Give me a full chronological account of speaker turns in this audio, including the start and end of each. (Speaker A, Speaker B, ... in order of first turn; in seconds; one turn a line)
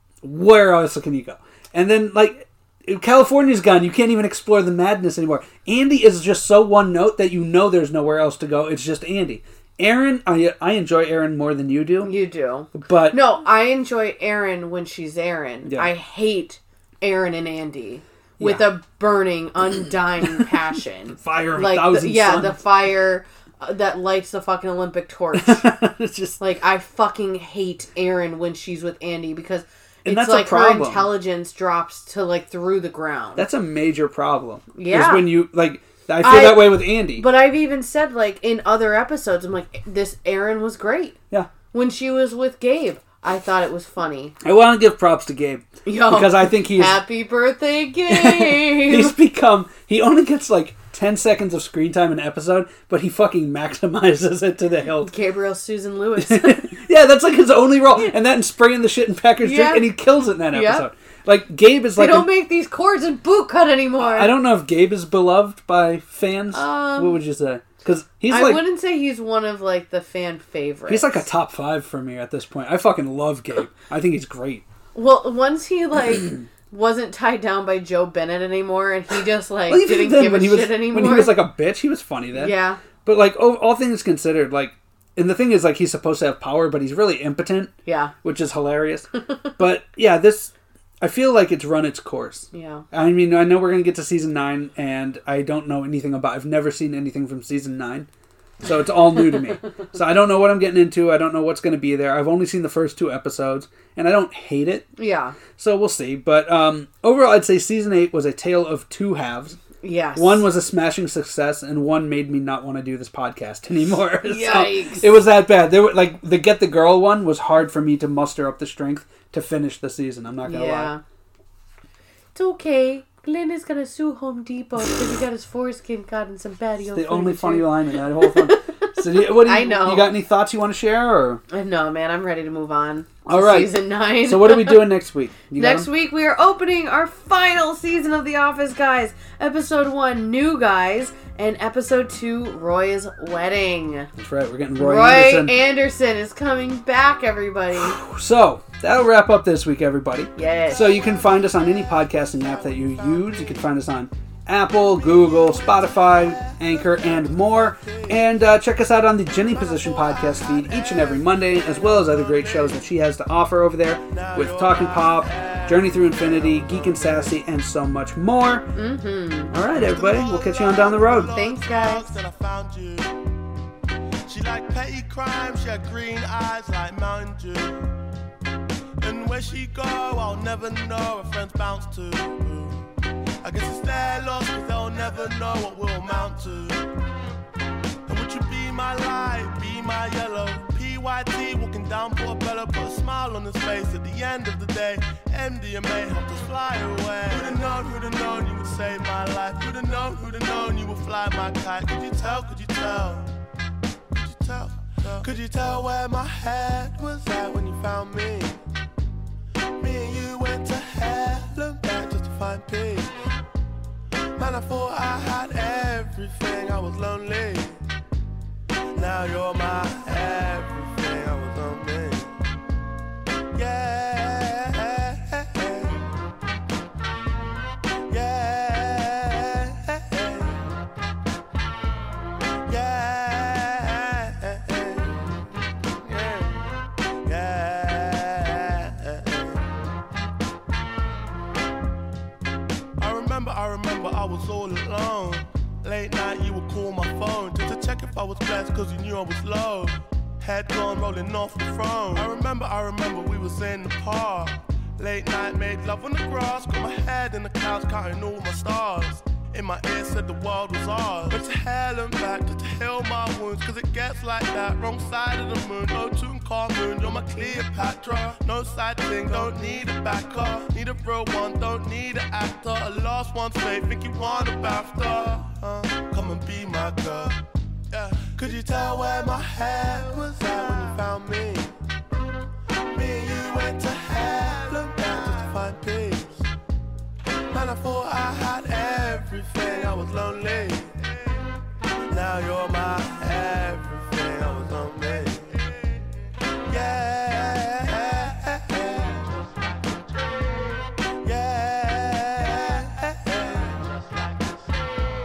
Speaker A: 0.2-12.1
Speaker B: 12.0-25.6
Speaker A: 12.7-13.2
Speaker A: 15.6-15.9
Speaker A: 18.4-18.7
Speaker A: 21.2-22.6
Speaker A: 25.4-26.4
Speaker B: 26.4-33.5
Speaker A: 30.0-31.1
Speaker A: 33.4-37.2
Speaker B: 34.7-35.3
Speaker B: 36.2-41.1
Speaker B: 41.7-44.4
Speaker A: 44.4-47.0
Speaker B: 45.8-49.1
Speaker A: 48.1-55.1
Speaker B: 55.0-56.7
Speaker A: 56.2-62.3
Speaker B: 59.4-59.9
Speaker B: 60.5-60.9
Speaker B: 62.0-64.3
Speaker A: 64.0-68.6
Speaker B: 66.5-67.2
Speaker B: 68.3-71.2
Speaker A: 70.9-74.6
Speaker B: 74.9-81.4
Speaker A: 79.7-98.1
Speaker B: 82.3-82.8
Speaker B: 87.8-88.1
Speaker B: 92.5-92.8
Speaker A: 98.6-104.9
Speaker B: 105.0-105.4
Speaker A: 105.5-109.6
Speaker B: 109.8-110.4
Speaker A: 110.2-120.9
Speaker B: 114.2-115.1
Speaker B: 120.4-121.0
Speaker B: 122.3-130.1
Speaker A: 126.9-131.4
Speaker B: 131.5-134.9
Speaker A: 133.3-135.9
Speaker B: 135.5-144.1
Speaker A: 144.2-145.5
Speaker B: 144.8-148.0
Speaker A: 147.7-168.7
Speaker B: 150.3-151.0
Speaker C: 152.1-153.7
Speaker C: 154.8-158.2
Speaker C: 159.5-162.8
Speaker C: 164.1-167.3
Speaker B: 168.7-169.5
Speaker A: 169.5-171.3
Speaker C: 169.7-173.2
Speaker B: 171.3-172.2
Speaker C: 174.3-177.9
Speaker C: 179.0-182.8
Speaker C: 183.4-186.9
Speaker C: 188.1-203.3
Speaker C: 204.1-208.6
Speaker C: 209.8-213.3
Speaker C: 214.3-217.8
Speaker C: 218.9-222.3
Speaker C: 223.5-226.1
Speaker C: 228.1-230.7
Speaker C: 232.7-235.4
Speaker C: 236.0-239.7
Speaker C: 243.0-281.8
Speaker C: 282.8-286.5
Speaker C: 287.5-291.4
Speaker C: 292.1-296.0
Speaker C: 296.6-304.6